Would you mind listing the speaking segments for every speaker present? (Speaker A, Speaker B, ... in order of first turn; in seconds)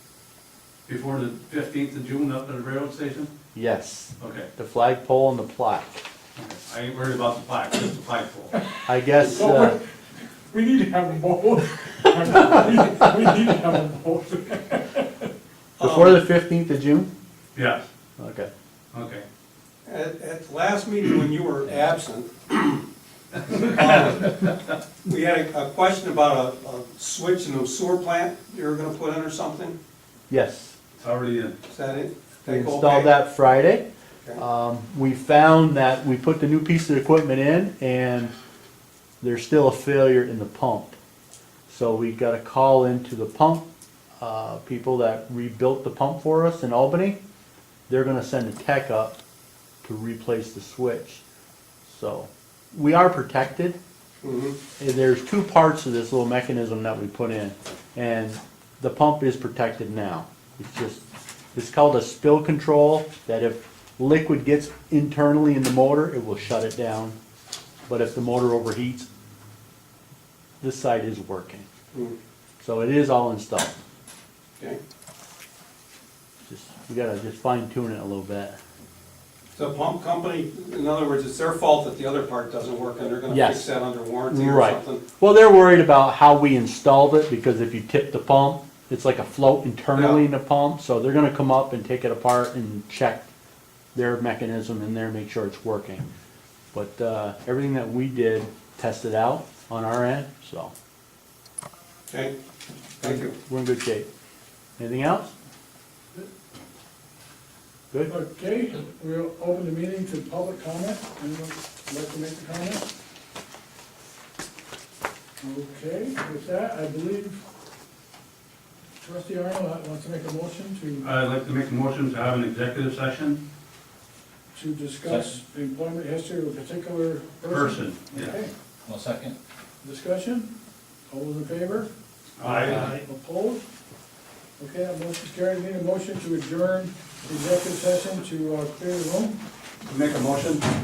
Speaker A: 0.9-3.3, 4.2-4.5, 6.4-8.6, 17.6-17.9, 18.9-19.2, 31.0-31.6, 121.0-123.4, 127.4-128.4, 132.4-133.0, 139.9-140.7
Speaker B: 3.5-6.0, 8.9-9.8, 12.2-12.5, 15.8-17.1, 18.2-18.5, 30.3-30.8, 32.5-33.9, 34.4-38.3, 39.2-41.0, 41.7-43.7, 44.2-47.2, 47.9-49.2, 49.8-51.2, 51.9-53.8, 54.8-67.2, 67.9-69.1, 70.6-71.7, 72.6-73.7, 76.5-78.6, 83.3-83.7, 84.3-93.2, 93.9-96.1, 96.7-100.7, 103.0-104.1, 104.8-105.3
Speaker C: 10.5-15.2, 108.1-112.9, 115.4-117.4, 119.0-121.0, 124.5-130.5, 131.1-131.9, 132.4-133.6, 134.6-139.3
Speaker D: 15.8-16.2, 19.9-22.8, 23.4-29.8, 31.7-33.1, 54.2-54.5, 79.5-85.0, 89.9-90.2, 102.1-102.3, 103.0-103.3